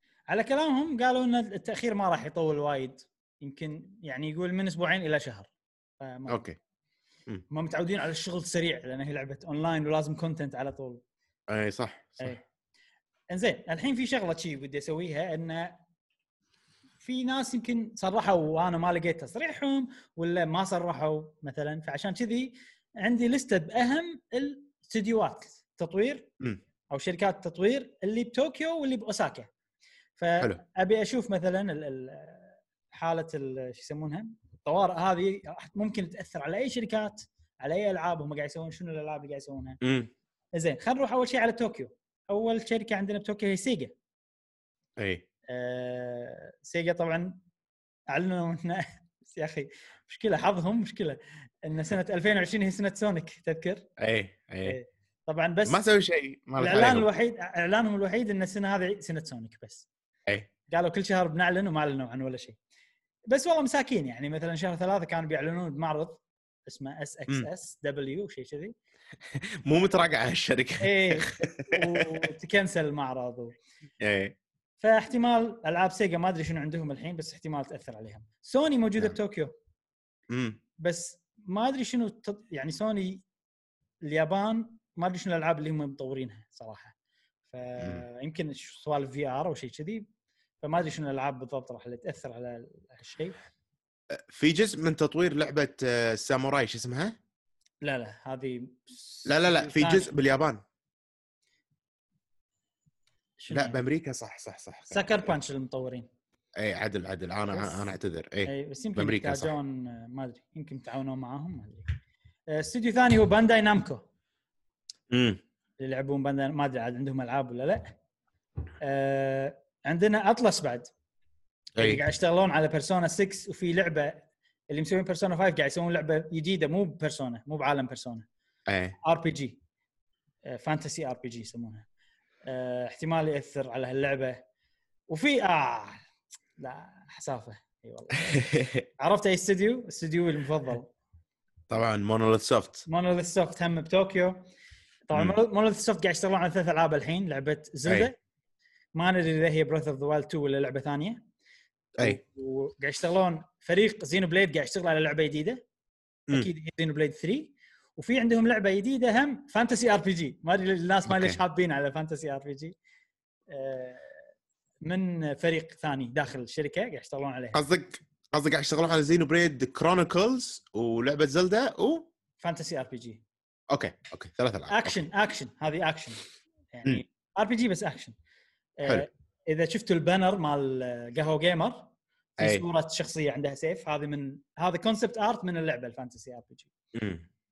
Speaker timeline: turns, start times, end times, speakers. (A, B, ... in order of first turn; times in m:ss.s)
0:00.3-0:06.4 A
0:06.3-0:06.6 B
0:07.5-0:11.0 A
0:11.5-0:12.4 B
0:13.3-0:15.8 A
0:17.0-0:26.3 A
0:26.9-0:29.5 A
0:30.2-0:39.8 A
0:39.8-0:40.1 B
0:40.6-0:43.9 A
0:45.0-0:45.2 B
0:45.5-0:47.4 A
0:48.1-0:53.9 A
0:54.0-0:54.8 B
0:54.6-0:55.8 A
0:55.7-0:57.1 B
0:56.6-0:59.9 A
1:00.7-1:02.6 A
1:03.3-1:08.8 A
1:09.3-1:12.3 B
1:10.8-1:13.6 A
1:14.0-1:14.4 B
1:14.8-1:19.5 A
1:20.3-1:20.6 B
1:20.8-1:23.2 A
1:24.0-1:26.9 A
1:27.5-1:30.1 A
1:30.6-1:33.4 A
1:34.1-1:37.2 B
1:37.8-1:40.1 A
1:39.3-1:40.6 B
1:43.4-1:43.8 A
1:43.5-1:45.3 B
1:44.9-1:46.1 A
1:46.6-1:49.5 B
1:47.5-1:47.8 A
1:48.5-1:51.9 A
1:52.5-1:54.0 A
1:55.1-1:55.4 B
1:55.8-1:57.9 A
1:58.8-2:00.9 A
2:01.8-2:02.0 B
2:01.8-2:08.3 A
2:08.7-2:09.0 B
2:09.0-2:09.6 A
2:10.5-2:11.9 A
2:12.5-2:14.4 A
2:15.1-2:16.0 A
2:16.6-2:20.9 A
2:18.3-2:18.8 B
2:21.7-2:22.9 B
2:22.9-2:24.4 A
2:25.1-2:28.2 A
2:29.0-2:31.2 A
2:32.0-2:35.6 A
2:36.3-2:42.8 A
2:41.1-2:41.4 B
2:43.5-2:44.1 A
2:44.8-2:47.6 A
2:47.5-2:52.1 B
2:52.4-2:53.2 A
2:53.7-2:55.0 B
2:54.7-2:58.1 A
2:58.8-3:06.7 A
3:02.4-3:02.6 B
3:06.9-3:07.2 B